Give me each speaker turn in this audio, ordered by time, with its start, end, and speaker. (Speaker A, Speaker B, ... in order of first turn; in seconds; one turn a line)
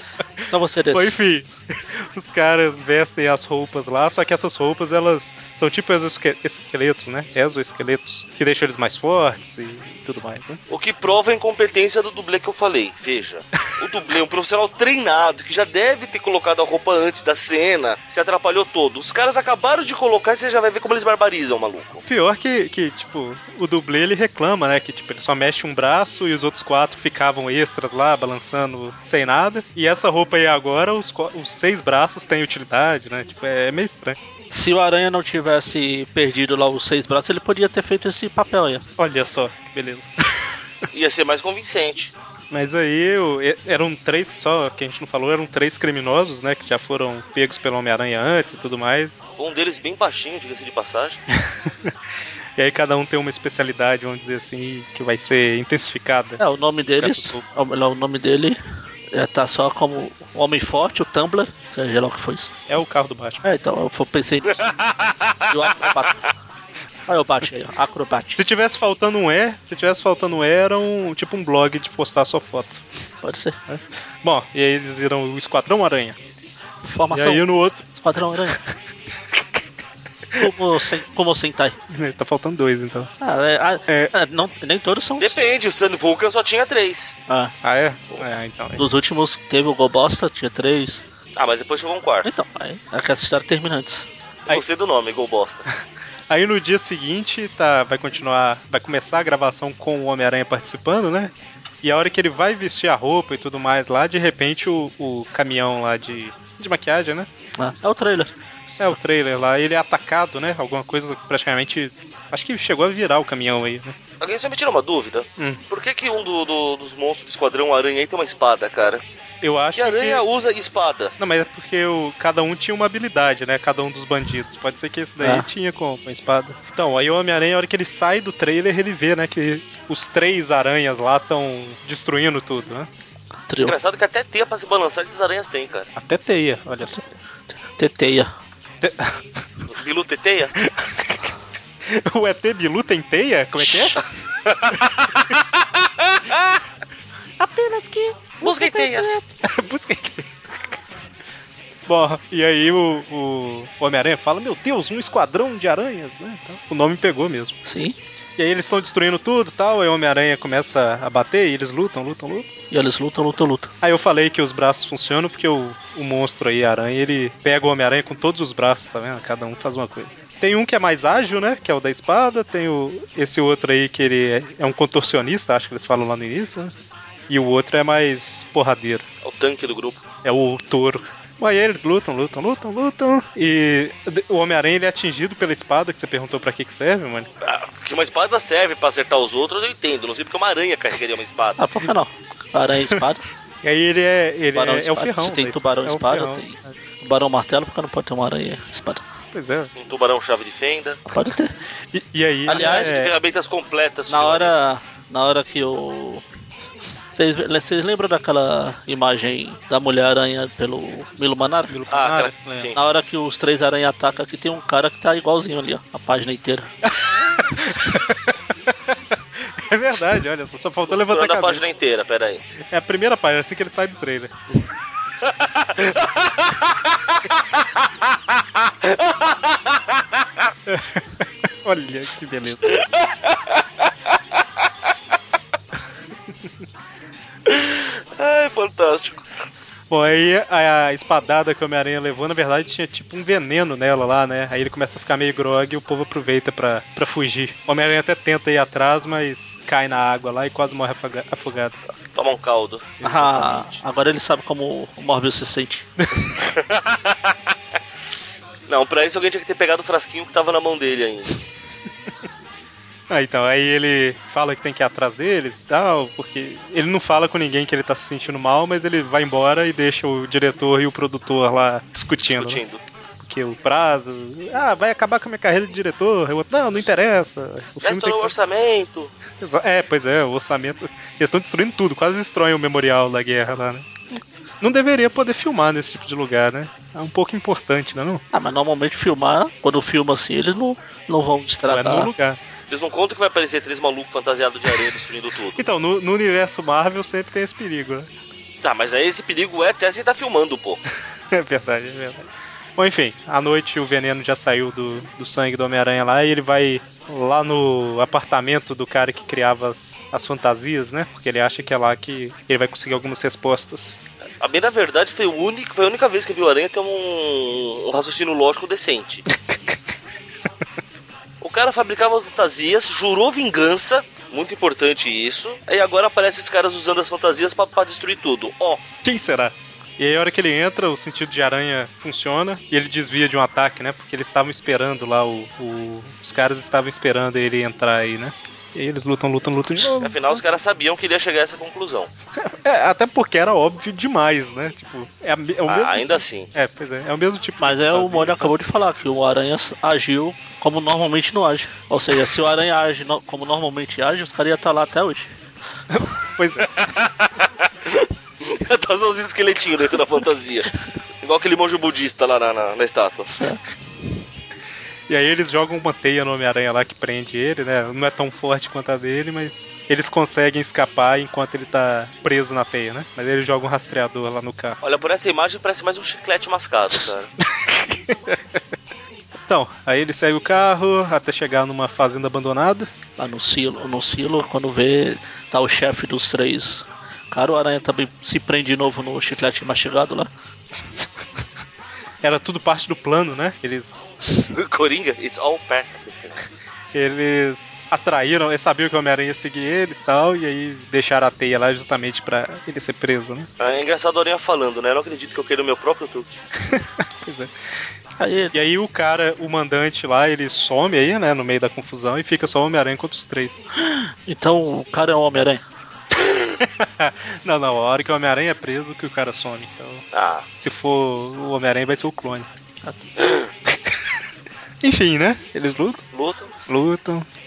Speaker A: 0.5-1.2
Speaker B: 0.9-10.6
Speaker C: 10.7-22.0
Speaker B: 22.0-34.2
Speaker A: 34.5-38.8
Speaker B: 39.0-40.6
Speaker C: 40.9-42.1
Speaker B: 42.5-49.3
Speaker C: 49.4-51.2
Speaker B: 51.3-51.9
Speaker B: 52.6-56.4
Speaker A: 56.4-58.6
Speaker B: 57.0-57.4
Speaker A: 59.1-62.5
Speaker B: 62.7-63.4
Speaker A: 63.4-64.7
Speaker C: 64.7-65.9
Speaker A: 65.5-66.2
Speaker A: 67.1-68.4
Speaker B: 68.3-72.8
Speaker A: 73.2-73.6
Speaker B: 73.7-76.2
Speaker A: 76.8-78.6
Speaker B: 77.1-77.8
Speaker B: 78.5-78.7
Speaker B: 79.3-79.6
Speaker A: 80.4-81.8
Speaker B: 81.9-83.1
Speaker A: 83.2-85.5
Speaker B: 83.9-84.1
Speaker C: 85.2-87.2
Speaker A: 87.3-87.5
Speaker B: 87.6-88.8
Speaker A: 88.8-91.0
Speaker C: 91.4-92.3
Speaker A: 92.2-94.1
Speaker C: 94.5-95.7
Speaker B: 96.3-101.3
Speaker B: 101.8-107.3
Speaker A: 107.6-109.0
Speaker B: 108.8-114.0
Speaker C: 114.2-119.0
Speaker B: 119.4-120.2
Speaker C: 119.7-121.1
Speaker B: 121.2-132.9
Speaker A: 125.2-125.5
Speaker A: 133.5-133.7
Speaker C: 133.6-135.9
Speaker B: 135.9-137.0
Speaker A: 137.7-138.3
Speaker B: 138.8-139.2
Speaker C: 139.7-140.5
Speaker B: 140.6-141.3
Speaker B: 141.9-144.0
Speaker A: 143.6-144.0
Speaker B: 147.4-150.8
Speaker C: 148.4-149.2
Speaker B: 151.9-157.6
Speaker A: 157.6-158.0
Speaker B: 158.4-162.5
Speaker A: 162.7-163.7
Speaker B: 163.8-176.7
Speaker B: 177.3-179.0
Speaker C: 179.2-180.0
Speaker B: 180.2-187.3
Speaker C: 187.4-191.6
Speaker A: 191.6-193.2
Speaker B: 193.6-196.7
Speaker A: 194.5-199.0
Speaker B: 199.3-199.7
Speaker C: 199.8-201.0
Speaker A: 201.1-201.5
Speaker B: 201.9-203.1
Speaker C: 202.5-204.5
Speaker A: 202.5-202.9
Speaker A: 204.1-206.2
Speaker A: 207.1-211.7
Speaker B: 211.7-212.7
Speaker C: 211.9-212.9
Speaker A: 212.7-216.7
Speaker B: 217.0-221.7
Speaker C: 220.9-222.4
Speaker B: 222.6-224.3
Speaker C: 225.2-226.8
Speaker C: 228.8-230.0
Speaker B: 230.7-232.8
Speaker C: 232.6-234.1
Speaker C: 237.4-239.2
Speaker B: 239.9-251.8
Speaker C: 252.1-253.0
Speaker B: 253.0-253.8
Speaker A: 253.0-255.9
Speaker B: 256.0-256.2
Speaker C: 256.4-257.3
Speaker C: 258.7-261.4
Speaker B: 263.1-272.6
Speaker C: 272.3-272.8
Speaker B: 273.2-278.3
Speaker C: 277.8-279.1
Speaker B: 279.4-283.9
Speaker B: 284.6-288.2
Speaker A: 288.3-292.1
Speaker B: 291.6-292.4
Speaker C: 292.7-295.7
Speaker B: 295.5-298.1
Speaker C: 298.6-300.8
Speaker B: 301.3-314.0
Speaker C: 314.4-319.2
Speaker C: 321.4-328.8
Speaker B: 329.0-340.4
Speaker C: 340.0-342.1
Speaker B: 342.4-348.5
Speaker C: 345.7-346.5
Speaker A: 347.6-355.3
Speaker B: 355.9-356.7
Speaker C: 356.7-363.4
Speaker A: 363.3-363.6
Speaker B: 365.1-374.8
Speaker C: 374.8-377.3
Speaker B: 377.5-378.6
Speaker B: 379.5-382.9
Speaker A: 383.2-390.3
Speaker B: 392.2-394.1
Speaker C: 394.5-396.4
Speaker B: 396.9-403.5
Speaker C: 403.6-406.4
Speaker B: 406.7-407.5
Speaker A: 408.2-408.5
Speaker B: 408.5-413.6
Speaker A: 413.8-415.6
Speaker B: 416.2-420.0
Speaker C: 420.1-420.4
Speaker B: 420.6-422.5
Speaker C: 423.2-423.5
Speaker B: 423.7-424.0
Speaker B: 424.8-426.0
Speaker C: 426.1-426.5
Speaker B: 426.7-427.3